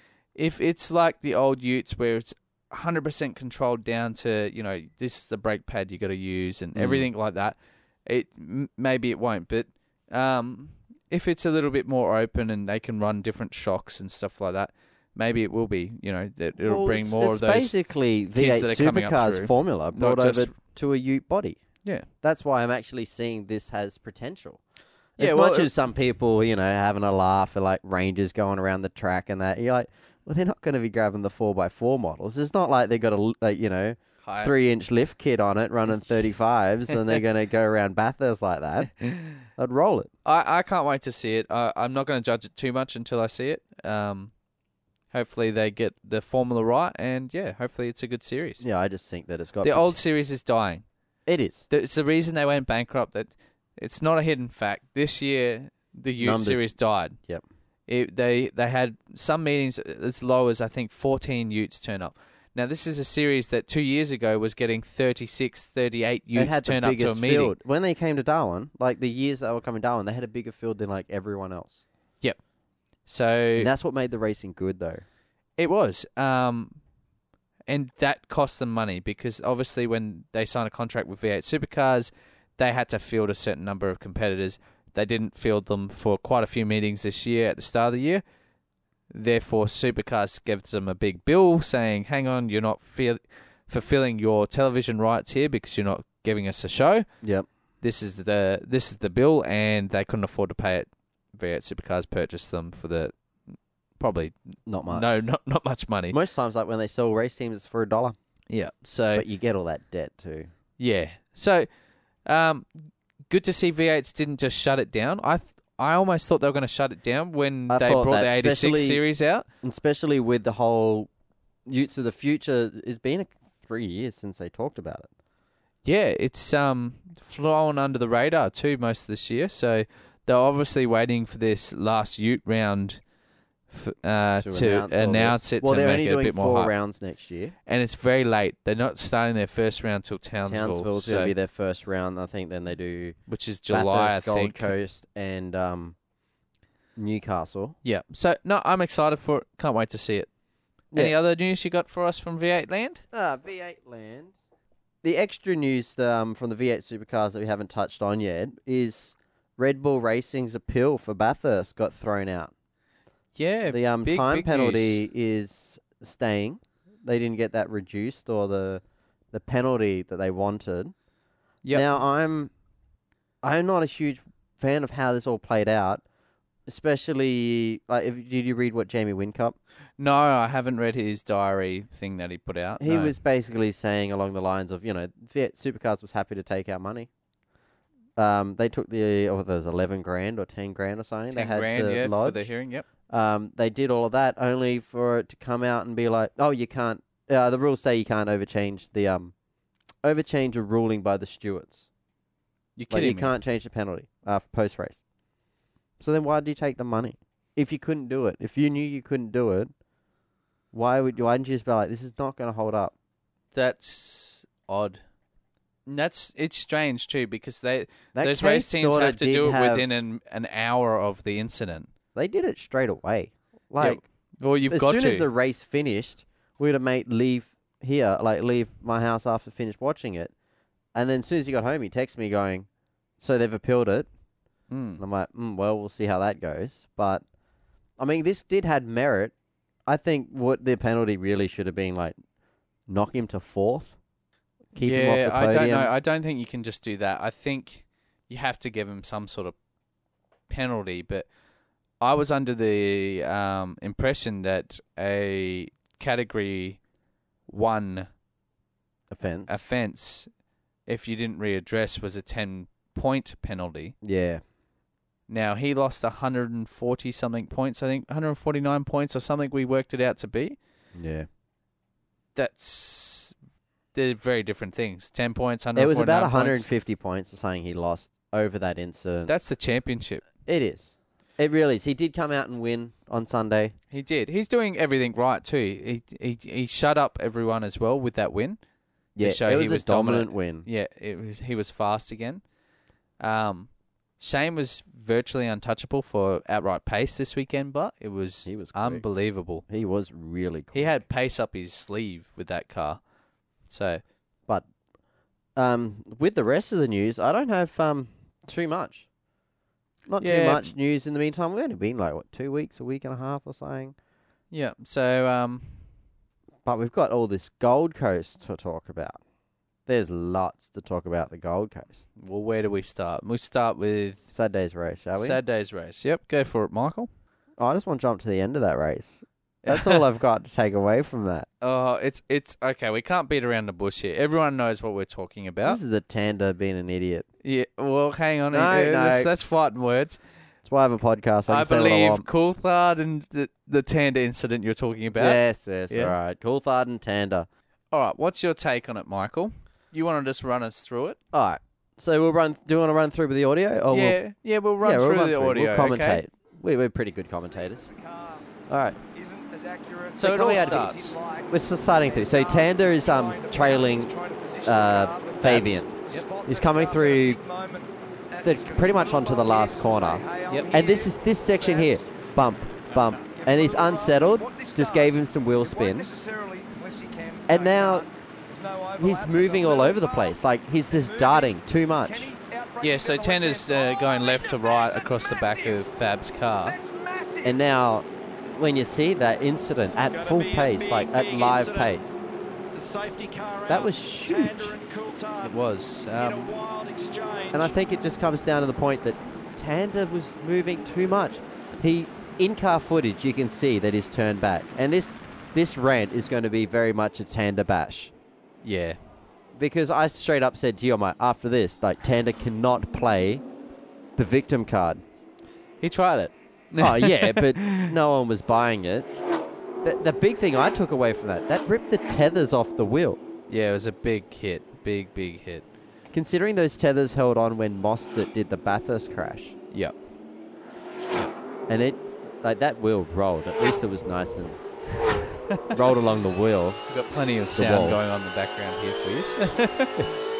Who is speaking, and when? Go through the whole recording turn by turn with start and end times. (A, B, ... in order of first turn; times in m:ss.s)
0:00.3-0:17.8 A
0:06.7-0:07.1 B
0:16.6-0:21.6 B
0:18.3-0:20.5 A
0:22.2-0:24.6 B
0:25.2-0:38.9 B
0:25.2-0:25.7 A
0:34.2-0:34.5 A
0:39.0-0:39.3 A
0:39.6-0:40.1 B
0:40.2-0:44.3 A
0:45.1-0:48.6 A
0:48.6-0:50.0 B
0:49.6-0:50.8 A
0:51.2-0:51.6 B
0:51.7-0:57.2 A
0:56.2-0:56.7 B
0:57.9-1:07.5 A
1:06.3-1:11.8 B
1:13.0-1:13.7 A
1:13.6-1:15.0 B
1:15.6-1:16.8 A
1:17.7-1:28.2 A
1:29.1-1:37.0 A
1:37.8-1:43.1 A
1:44.0-1:44.3 A
1:44.7-1:45.2 B
1:44.9-1:46.2 A
1:46.1-1:48.2 B
1:48.5-1:49.2 A
1:49.1-1:50.5 B
1:50.8-1:51.7 A
1:52.2-1:52.7 A
1:53.3-1:59.5 A
1:57.7-1:59.0 B
1:59.6-2:01.1 B
2:01.6-2:05.1 B
2:05.8-2:13.0 A
2:13.7-2:16.7 A
2:14.4-2:17.5 B
2:17.7-2:21.3 A
2:20.5-2:23.2 B
2:23.3-2:24.7 A
2:23.7-2:26.0 B
2:27.0-2:27.7 B
2:27.8-2:30.3 A
2:30.9-2:33.0 A
2:33.1-2:34.3 B
2:35.0-2:42.5 B
2:43.4-2:45.0 A
2:43.7-2:50.9 B
2:51.7-2:52.5 B
2:53.4-2:56.0 B
2:56.7-2:59.6 B
3:00.0-3:03.1 A
3:02.8-3:07.1 B
3:08.2-3:12.5 B
3:11.3-3:12.8 A
3:13.1-3:19.3 B
3:20.0-3:21.8 B
3:22.8-3:23.3 A
3:22.9-3:25.0 B
3:26.0-3:29.7 B
3:30.7-3:32.9 B
3:33.5-3:35.0 A
3:35.8-3:41.9 A
3:38.1-3:39.8 B
3:42.1-3:44.0 B
3:43.8-3:45.3 A
3:44.7-3:50.3 B
3:50.9-3:52.7 B
3:53.2-3:54.1 B
3:54.7-3:55.0 A
3:55.0-3:57.2 B
3:58.0-3:59.3 B
3:59.8-4:02.2 B
4:02.9-4:04.0 B
4:04.7-4:05.9 B
4:04.8-4:09.5 A
4:10.5-4:11.3 A
4:12.0-4:16.8 A
4:17.5-4:18.1 A
4:19.1-4:19.6 B
4:19.5-4:20.3 A
4:20.9-4:23.9 A
4:24.0-4:24.4 B
4:25.3-4:30.6 A
4:31.0-4:31.3 B
4:32.3-4:33.3 A
4:33.9-4:36.7 A
4:35.8-4:39.3 B
4:39.3-4:40.2 A
4:40.4-4:43.7 B
4:43.9-4:48.6 A
4:49.2-4:50.6 B
4:49.2-4:52.4 A
4:53.2-4:59.6 A
4:58.4-4:59.0 B
4:59.7-5:01.0 B
5:00.7-5:03.0 A
5:03.7-5:04.0 A
5:05.6-5:09.0 B
5:10.1-5:13.9 B
5:10.2-5:10.7 A
5:14.5-5:15.8 A
5:16.6-5:19.2 B
5:19.9-5:22.0 B
5:22.2-5:24.3 A
5:24.3-5:25.4 B
5:25.2-5:27.1 A
5:27.6-5:31.5 B
5:29.6-5:30.0 A
5:31.6-5:35.8 A
5:35.6-5:37.3 B
5:37.4-5:40.2 A
5:38.5-5:39.3 B
5:40.6-5:42.2 B
5:41.5-5:45.4 A
5:45.2-5:47.5 B
5:45.9-5:46.1 A
5:47.9-5:51.2 A
5:51.3-5:54.2 B
5:53.9-5:56.2 A
5:54.8-5:57.9 B
5:57.4-5:58.5 C
5:58.7-5:59.0 B
5:59.1-6:12.2 C
6:00.1-6:01.1 A
6:00.2-6:00.9 B
6:01.5-6:04.1 B
6:04.6-6:05.9 B
6:05.4-6:06.2 A
6:06.4-6:07.4 B
6:08.4-6:16.1 B
6:10.5-6:10.7 A
6:12.9-6:20.4 C
6:17.5-6:18.0 B
6:19.0-6:22.3 B
6:20.9-6:25.8 C
6:22.8-6:26.8 A
6:26.6-6:27.6 C
6:27.4-6:32.2 B
6:29.9-6:31.9 C
6:32.7-6:35.6 C
6:33.7-6:34.7 B
6:35.4-6:36.5 A
6:36.1-6:37.8 C
6:37.5-6:48.1 B
6:48.6-6:49.0 A
6:49.5-6:53.4 B
6:54.2-6:55.0 B
6:55.8-6:57.9 A
6:56.8-6:59.1 B
6:59.8-7:03.2 B
7:03.5-7:05.6 A
7:06.1-7:09.6 B
7:11.7-7:14.6 B
7:15.5-7:15.8 A
7:15.7-7:16.8 B
7:16.9-7:20.2 A
7:17.5-7:18.0 B